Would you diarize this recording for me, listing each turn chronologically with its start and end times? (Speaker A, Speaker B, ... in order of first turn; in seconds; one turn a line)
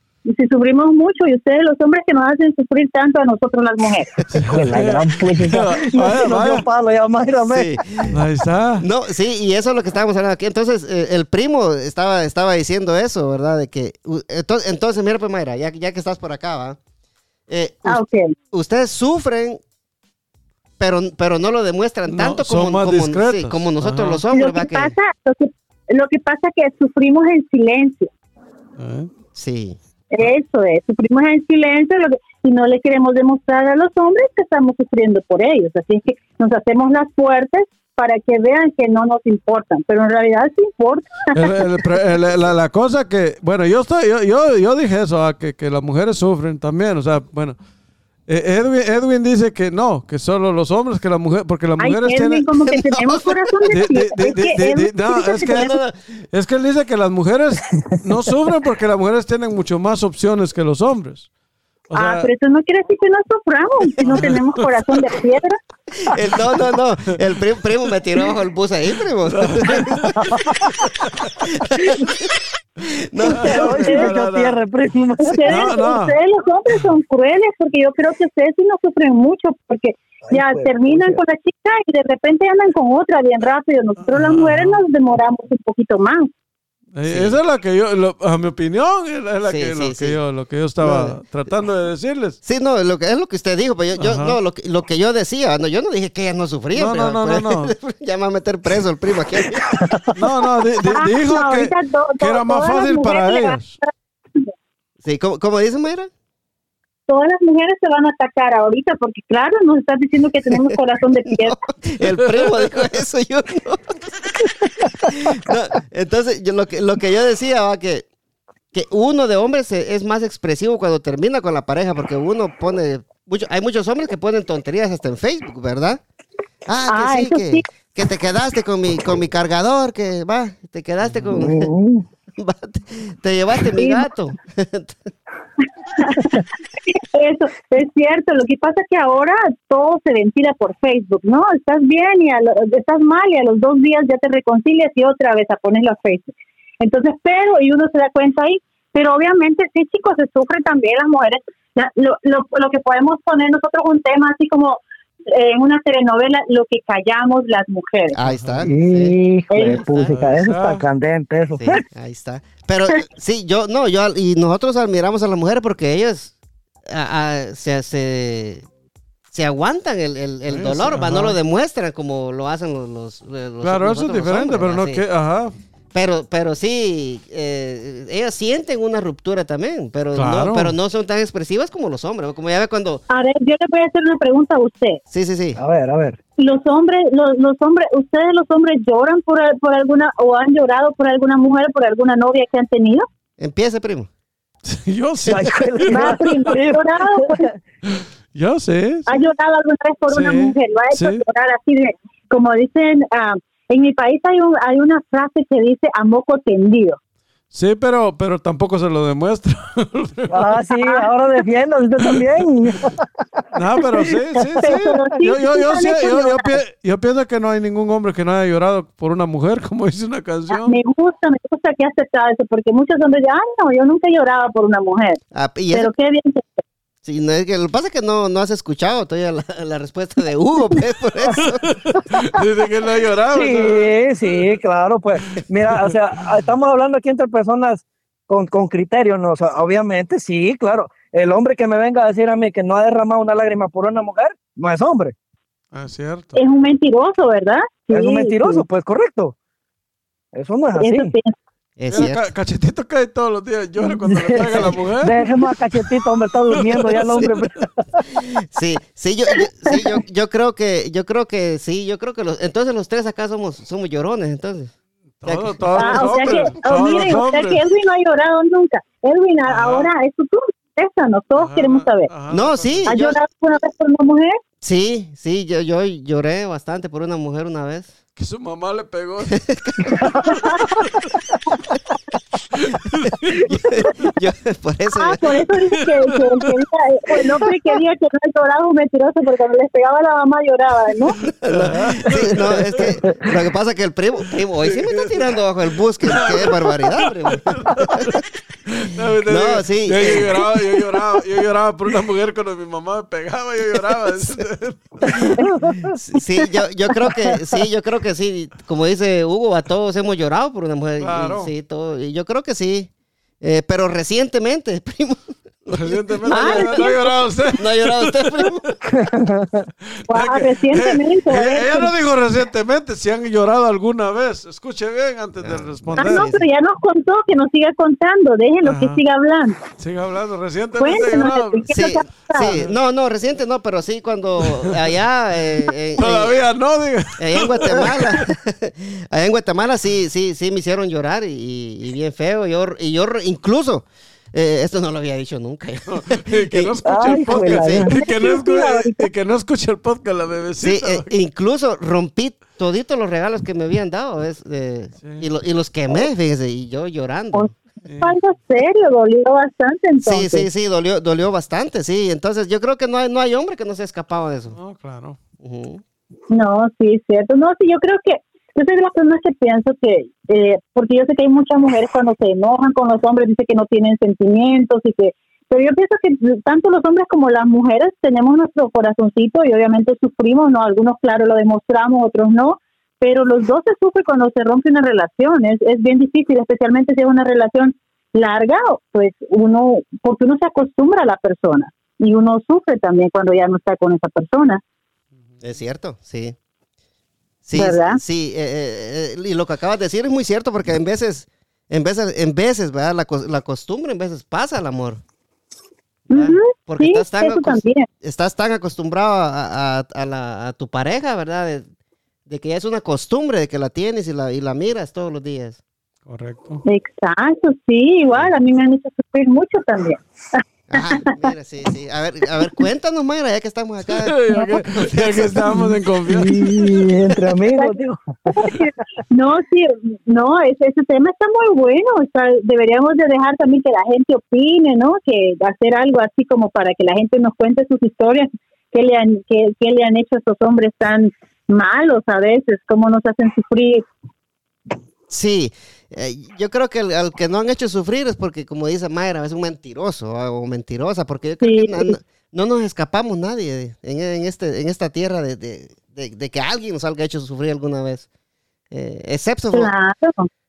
Speaker A: 0.2-4.2
Speaker B: 4.3-6.6
Speaker C: 4.4-8.1
Speaker D: 7.5-8.1
Speaker B: 8.1-8.8
Speaker D: 8.8-16.8
Speaker D: 17.5-19.6
Speaker A: 17.9-18.3
Speaker D: 20.8-24.9
Speaker B: 22.1-24.2
Speaker A: 24.3-28.1
Speaker B: 28.8-29.1
Speaker D: 29.3-29.8
Speaker A: 30.1-41.6
Speaker B: 41.3-47.6
Speaker B: 48.3-52.5
Speaker A: 51.8-55.7
Speaker D: 52.7-53.6
Speaker B: 53.7-55.7
Speaker D: 55.4-56.2
Speaker B: 56.3-61.3
Speaker B: 61.9-62.3
Speaker A: 62.0-65.6
Speaker B: 64.0-65.0
Speaker D: 66.0-70.4
Speaker B: 69.2-70.2
Speaker C: 70.2-70.6
Speaker D: 71.4-72.3
Speaker D: 72.8-73.8
Speaker B: 73.3-74.6
Speaker C: 73.3-75.6
Speaker A: 73.5-74.1
Speaker A: 75.2-86.3
Speaker B: 75.5-76.1
Speaker C: 80.3-81.2
Speaker B: 84.0-84.8
Speaker B: 86.9-92.4
Speaker D: 87.0-87.4
Speaker D: 89.4-90.2
Speaker D: 90.8-91.2
Speaker D: 92.4-99.8
Speaker B: 94.0-94.4
Speaker B: 96.7-97.7
Speaker C: 99.7-100.2
Speaker B: 100.2-103.8
Speaker A: 100.9-104.5
Speaker D: 105.0-106.1
Speaker A: 107.1-111.6
Speaker D: 110.5-114.4
Speaker B: 112.1-112.5
Speaker D: 115.0-118.0
Speaker D: 118.7-126.0
Speaker D: 126.7-131.7
Speaker A: 126.9-127.6
Speaker C: 131.3-132.1
Speaker D: 132.3-135.1
Speaker A: 133.8-134.1
Speaker A: 135.9-158.2
Speaker C: 136.2-136.4
Speaker D: 158.1-160.1
Speaker B: 158.2-158.7
Speaker C: 158.6-161.8
Speaker A: 159.5-159.8
Speaker B: 160.1-160.8
Speaker D: 161.6-166.3
Speaker D: 166.9-168.7
Speaker D: 169.3-175.0
Speaker B: 170.5-171.4
Speaker B: 173.6-175.5
Speaker D: 175.9-183.0
Speaker B: 180.1-180.7
Speaker A: 183.1-185.0
Speaker D: 185.1-185.6
Speaker C: 185.6-186.2
Speaker A: 186.4-193.1
Speaker D: 193.4-194.1
Speaker B: 194.7-196.5
Speaker C: 195.3-197.6
Speaker A: 195.9-197.5
Speaker B: 197.8-199.2
Speaker A: 199.1-207.0
Speaker B: 200.1-201.2
Speaker B: 207.5-210.5
Speaker C: 210.3-213.4
Speaker A: 210.7-211.1
Speaker B: 213.5-220.8
Speaker C: 214.0-214.7
Speaker A: 214.6-216.5
Speaker A: 220.5-225.2
Speaker D: 225.3-225.9
Speaker A: 225.7-226.6
Speaker D: 227.0-231.7
Speaker B: 231.4-234.5
Speaker C: 233.3-245.1
Speaker B: 245.7-246.4
Speaker A: 246.3-248.6
Speaker C: 247.9-249.3
Speaker C: 250.3-251.1
Speaker A: 250.8-251.3
Speaker D: 251.8-252.2
Speaker B: 251.9-255.2
Speaker C: 253.8-258.0
Speaker B: 256.5-257.3
Speaker D: 258.1-264.7
Speaker B: 265.2-267.6
Speaker D: 265.2-266.6
Speaker A: 265.8-272.1
Speaker B: 269.4-269.9
Speaker B: 271.4-272.9
Speaker D: 272.3-273.2
Speaker A: 272.9-274.4
Speaker D: 274.6-277.9
Speaker B: 278.1-279.4
Speaker D: 279.3-279.9
Speaker C: 279.8-280.4
Speaker A: 280.3-280.8
Speaker B: 282.5-283.5
Speaker D: 283.4-285.4
Speaker A: 284.9-291.2
Speaker B: 285.7-286.5
Speaker B: 291.4-292.9
Speaker D: 291.4-298.1
Speaker B: 294.6-295.3
Speaker B: 296.1-305.4
Speaker D: 299.2-300.4
Speaker C: 305.4-306.0
Speaker D: 305.9-312.9
Speaker B: 311.0-311.5
Speaker D: 313.4-318.6
Speaker B: 315.7-318.8
Speaker A: 316.3-317.0
Speaker C: 318.9-319.7
Speaker B: 319.9-326.4
Speaker A: 320.1-321.9
Speaker D: 325.4-326.4
Speaker A: 326.0-329.6
Speaker B: 328.6-329.0
Speaker B: 329.7-331.7
Speaker A: 330.8-332.5
Speaker D: 331.7-336.4
Speaker B: 332.2-332.8
Speaker B: 334.4-334.8
Speaker B: 336.0-338.3
Speaker D: 337.2-347.9
Speaker B: 345.9-351.1
Speaker C: 346.8-347.9
Speaker A: 347.9-349.1
Speaker D: 350.6-357.5
Speaker B: 355.0-355.3
Speaker A: 357.3-360.5
Speaker B: 357.8-358.2
Speaker D: 360.0-364.6
Speaker B: 364.5-365.2
Speaker D: 365.4-365.8
Speaker A: 366.3-394.6
Speaker D: 395.4-396.4
Speaker D: 397.4-405.0
Speaker A: 397.5-398.0
Speaker A: 406.1-407.9
Speaker D: 406.1-411.6
Speaker D: 412.3-415.6
Speaker B: 416.1-416.6
Speaker A: 416.6-420.0
Speaker D: 420.7-425.5
Speaker A: 420.9-421.2
Speaker B: 423.9-426.6
Speaker C: 425.5-428.5
Speaker A: 428.3-443.9
Speaker D: 445.1-458.1
Speaker A: 451.4-451.9
Speaker D: 458.7-459.7
Speaker A: 459.5-460.3